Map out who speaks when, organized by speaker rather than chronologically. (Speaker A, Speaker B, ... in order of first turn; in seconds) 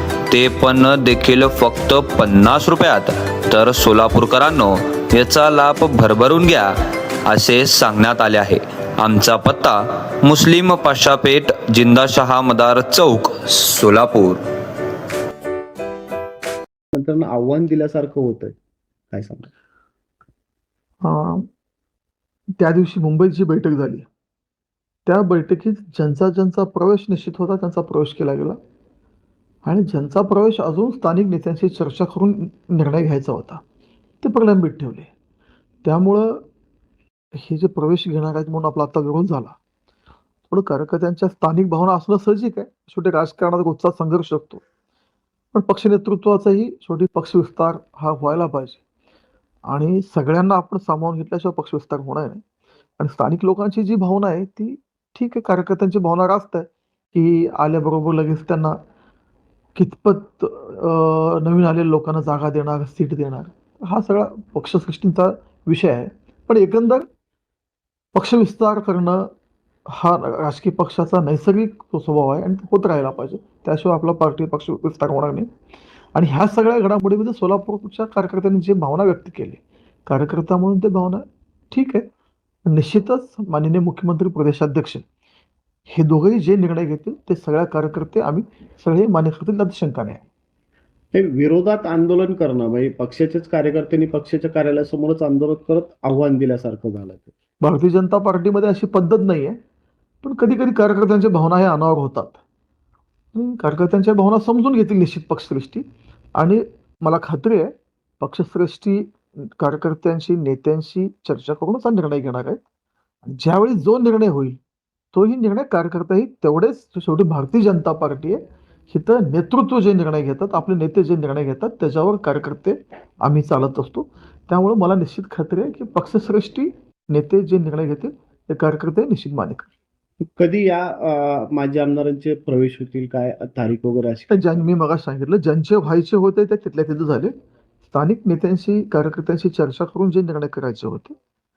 Speaker A: 0.3-6.8, 7.3-14.4
Speaker B: 16.9-18.6, 19.1-19.5, 91.1-97.3, 130.4-134.6
Speaker C: 21.0-21.5, 22.6-24.1, 25.1-28.6, 29.6-33.6, 34.2-35.1, 35.8-36.5, 37.4-39.6, 40.5-44.6, 45.5-48.8, 49.7-52.4, 53.0-58.8, 59.8-67.1, 68.2-69.3, 69.9-75.5, 76.1-82.1, 82.7-85.0, 85.9-90.2, 97.6-99.6, 100.2-102.4, 103.3-105.8, 106.4-112.6, 113.2-114.6, 115.1-129.7, 134.3-137.3, 137.9-141.2